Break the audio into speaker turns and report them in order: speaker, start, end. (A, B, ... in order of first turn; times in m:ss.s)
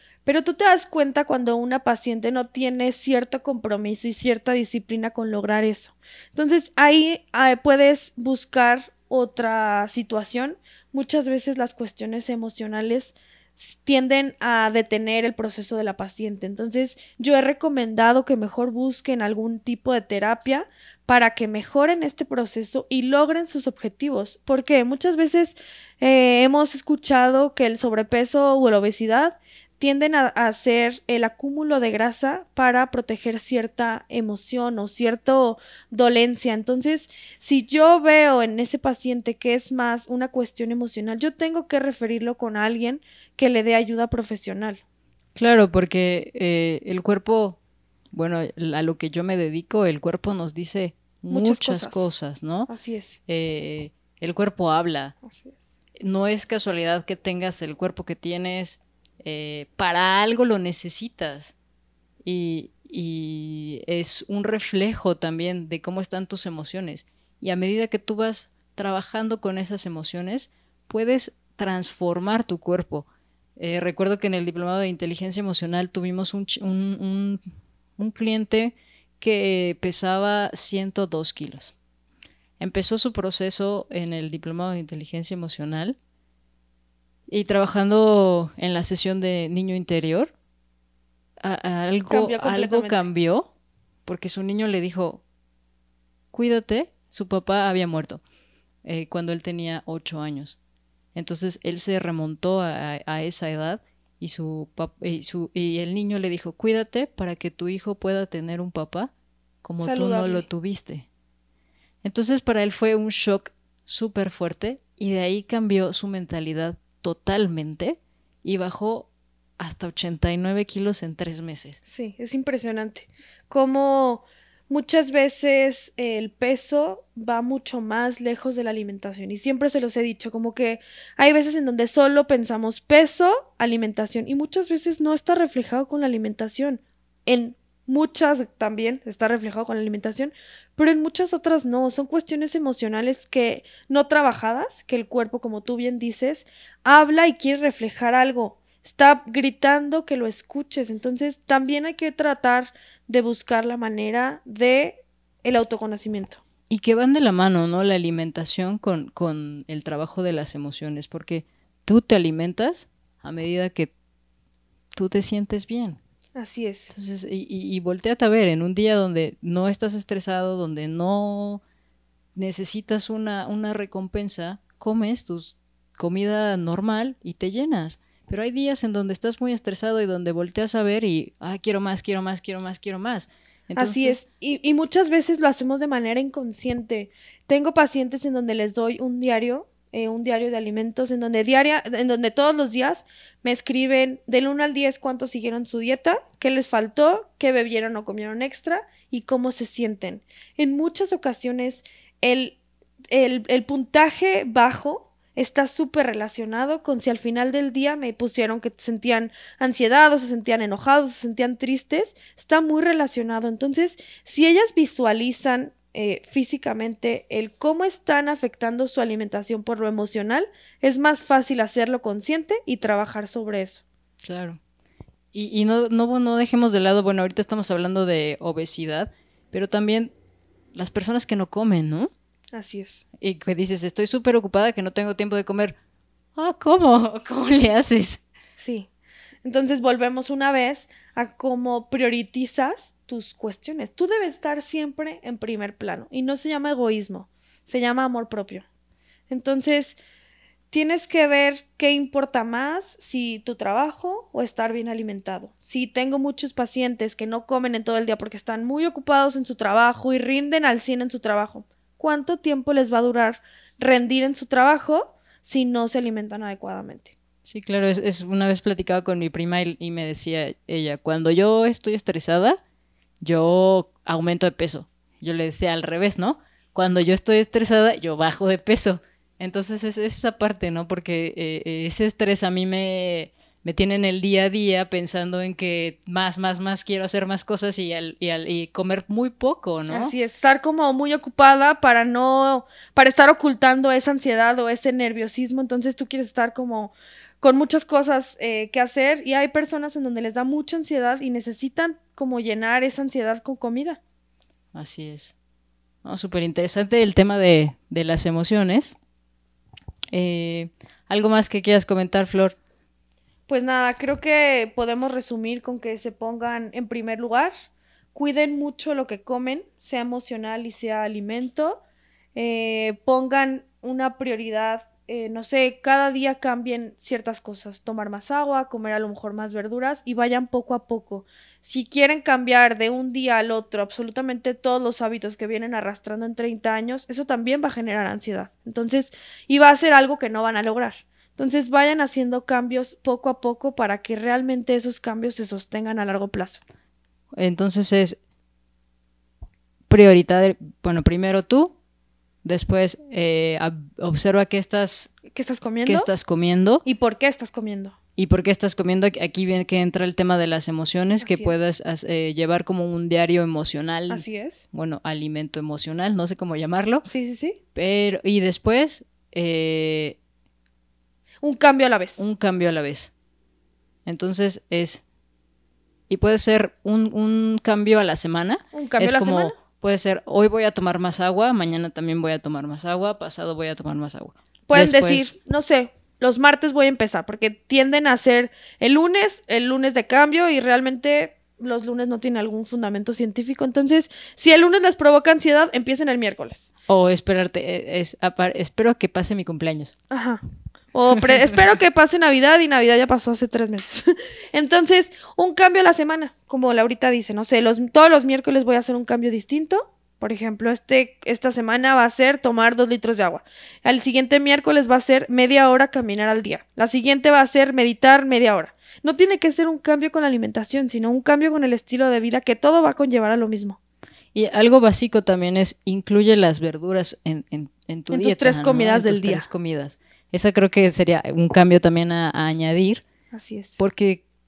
0:00.3-0:44.8 A
0:45.4-0:47.6 B
0:48.1-0:52.7 B
0:51.3-0:52.1 A
0:52.7-0:53.2 A
0:53.3-0:55.2 B
0:55.2-0:55.7 A
0:56.0-1:01.5 B
1:02.2-1:13.1 B
1:13.6-1:17.4 B
1:18.0-1:21.7 B
1:22.6-1:26.0 B
1:27.3-1:30.3 B
1:31.4-1:33.5 B
1:32.1-1:33.1 A
1:34.1-1:35.2 B
1:36.3-1:38.2 B
1:38.8-1:40.6 B
1:41.2-1:49.1 B
1:49.6-1:51.1 B
1:49.8-1:50.4 A
1:52.0-2:01.8 B
2:01.9-2:36.4 A
2:36.7-2:43.9 B
2:45.0-2:46.0 B
2:46.4-2:46.9 A
2:46.9-2:51.6 B
2:52.4-3:04.2 B
3:03.8-3:22.6 A
3:23.1-3:43.8 A
3:44.2-3:44.6 B
3:45.3-3:50.1 B
3:50.7-3:52.1 B
3:52.5-3:53.0 A
3:53.2-3:55.8 B
3:56.4-3:58.2 B
3:58.6-3:58.9 A
3:59.4-4:08.6 A
4:09.3-4:10.0 A
4:10.7-4:27.1 A
4:27.5-4:32.6 B
4:33.2-4:50.1 B
4:49.9-5:04.0 A
5:04.7-5:05.3 B
5:06.0-5:09.0 B
5:10.1-5:12.6 B
5:13.5-5:17.5 A
5:18.1-5:21.8 A
5:22.4-5:46.6 A
5:47.3-5:48.2 B
5:49.9-5:51.8 B
5:52.4-5:55.1 B
5:55.3-5:56.1 A
5:55.9-5:56.8 B
5:56.8-5:58.0 A
5:58.2-6:07.0 B
6:01.2-6:01.7 A
6:04.1-6:04.6 A
6:07.0-6:07.6 A
6:07.7-6:10.2 B
6:11.4-6:12.2 A
6:12.2-6:13.1 B
6:14.0-6:15.0 B
6:16.1-6:25.3 B
6:18.7-6:19.6 A
6:24.7-6:36.7 A
6:36.9-6:39.9 B
6:40.1-6:40.4 A
6:40.9-7:03.8 A
7:04.3-7:13.0 B
7:08.1-7:09.5 A
7:13.3-7:13.8 A
7:13.8-7:14.2 B